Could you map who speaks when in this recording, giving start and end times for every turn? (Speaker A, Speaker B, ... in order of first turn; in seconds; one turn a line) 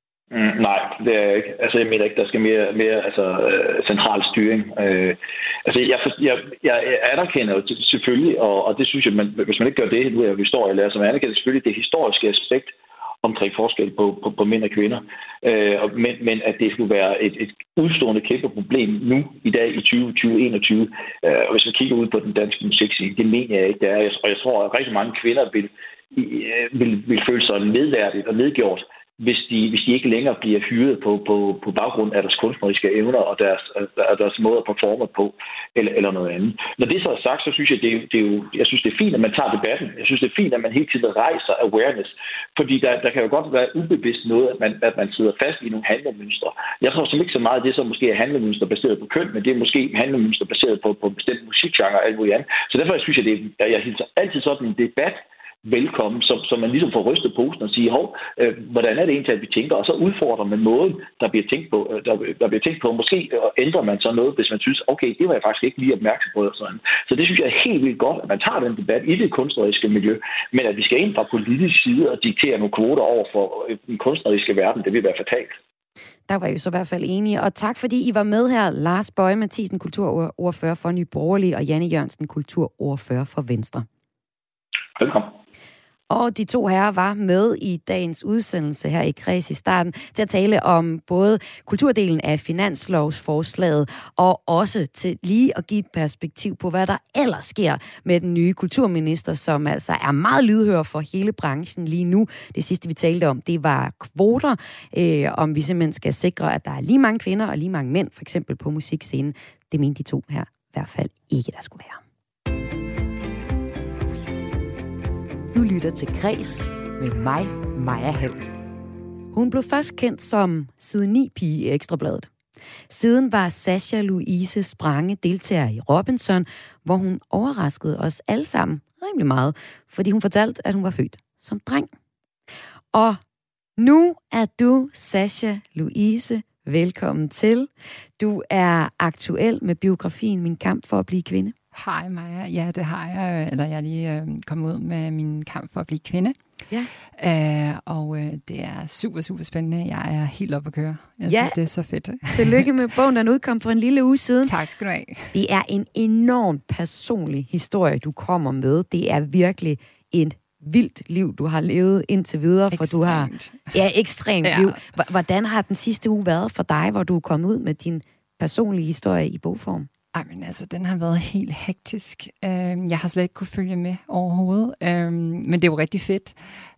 Speaker A: 0.3-75.6
Speaker B: 76.3-83.9
Speaker A: 85.0-85.3
Speaker B: 86.1-112.0
Speaker B: 115.5-118.4
Speaker B: 119.3-122.3
Speaker B: 122.9-131.9
Speaker B: 132.9-133.2
Speaker B: 133.8-141.5
Speaker C: 141.7-146.4
Speaker C: 147.2-152.7
Speaker B: 151.3-151.6
Speaker B: 152.3-154.5
Speaker C: 154.4-155.3
Speaker B: 155.3-169.9
Speaker C: 162.7-163.7
Speaker C: 164.4-164.8
Speaker C: 170.1-176.4